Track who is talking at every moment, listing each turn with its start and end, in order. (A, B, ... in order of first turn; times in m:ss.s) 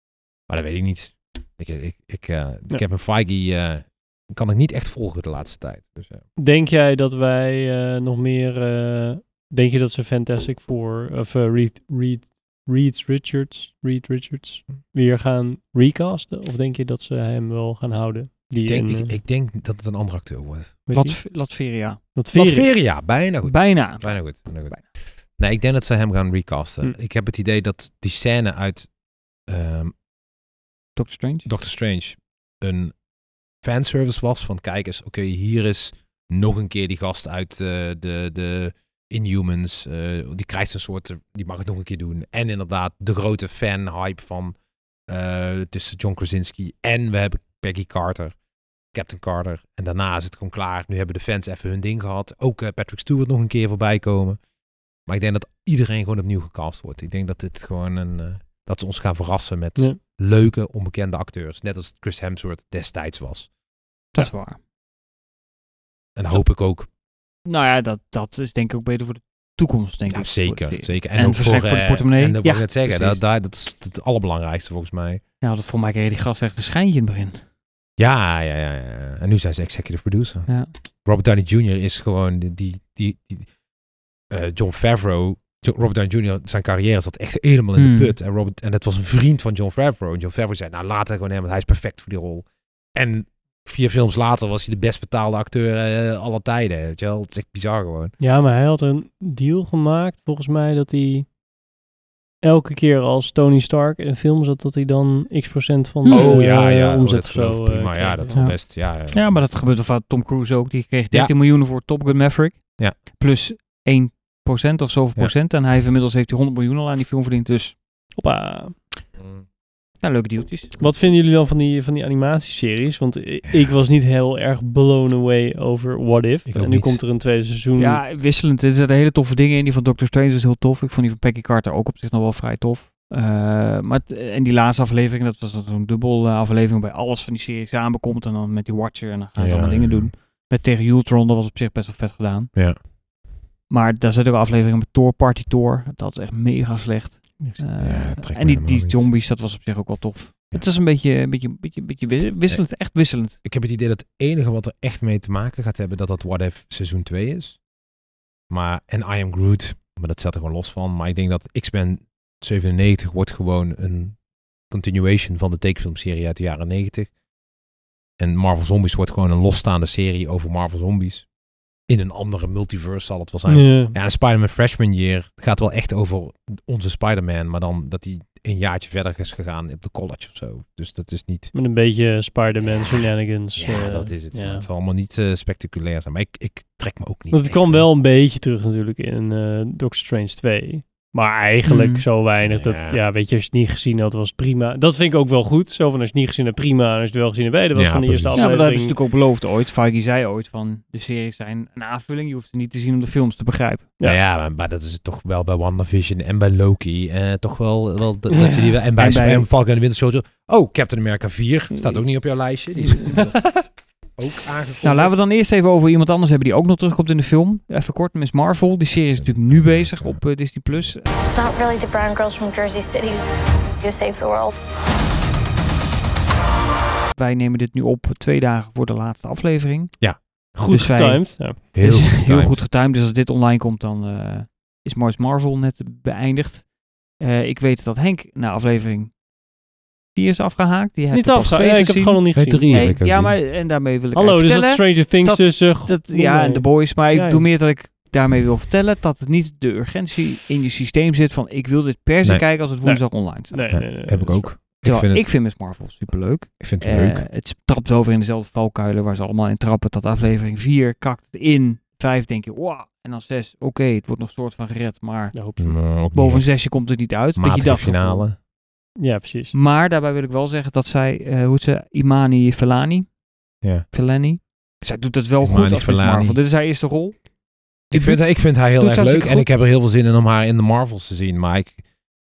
0:00.5-0:06.2 A
0:06.4-0:19.2 B
0:18.6-0:20.8 A
0:20.9-0:21.2 B
0:20.9-0:22.0 C
0:22.2-0:22.7 B
0:22.3-0:28.9 A
0:23.4-0:24.8 C
0:29.5-0:30.0 A
0:31.0-0:31.5 C
0:31.4-0:32.9 A
0:33.6-0:44.6 A
0:45.1-0:48.4 A
0:48.9-0:54.4 A
0:55.1-1:03.5 A
1:04.2-1:04.6 C
1:06.2-1:06.9 A
1:07.5-1:13.2 C
1:10.1-1:15.2 A
1:15.4-1:17.4 C
1:18.0-1:20.5 A
1:21.0-1:23.5 A
1:24.3-1:38.1 A
1:27.8-1:28.2 C
1:38.2-1:41.3 B
1:42.4-1:48.4 B
1:46.0-1:46.4 C
1:46.1-1:49.4 A
1:48.3-1:57.8 C
1:58.2-1:58.8 B
1:59.2-1:59.4 A
2:00.0-2:00.8 C
2:00.8-2:08.0 B
2:06.5-2:07.0 A
2:07.8-2:22.5 C
2:19.4-2:20.1 A
2:23.7-2:33.4 C
2:27.8-2:29.1 A
2:33.4-2:37.6 A
2:38.5-2:44.2 A
2:44.7-2:47.1 A
2:48.2-2:51.3 A
2:51.9-3:01.5 A
2:53.5-2:54.0 B
3:01.5-3:04.6 B
3:02.7-3:03.0 A
3:03.6-3:07.9 A
3:07.3-3:19.0 B
3:11.7-3:12.1 C
3:12.4-3:13.0 A
3:17.7-3:18.5 A
3:18.3-3:23.9 C
3:24.0-3:33.6 A
3:29.0-3:29.5 C
3:32.8-3:33.4 C
3:33.2-3:33.5 B
3:34.2-3:35.1 A
3:34.8-3:41.1 C
3:39.1-3:40.9 A
3:41.2-3:43.2 D
3:43.8-3:44.5 D
3:47.1-3:59.2 C
3:50.6-3:51.6 B
3:51.7-3:52.6 A
4:00.2-4:13.9 C
4:01.1-4:02.9 B
4:02.4-4:03.4 A
4:04.2-4:07.4 B
4:12.8-4:14.5 B
4:13.7-4:15.4 A
4:14.8-4:25.4 C
4:16.6-4:17.2 A
4:25.3-4:25.8 B
4:25.6-4:26.7 A
4:26.1-4:28.3 C
4:27.4-4:28.4 A
4:29.0-4:29.5 B
4:29.5-4:33.2 C
4:33.6-4:33.9 A
4:33.9-4:37.3 C
4:35.4-4:36.4 A
4:37.9-4:39.5 C
4:37.9-4:41.8 A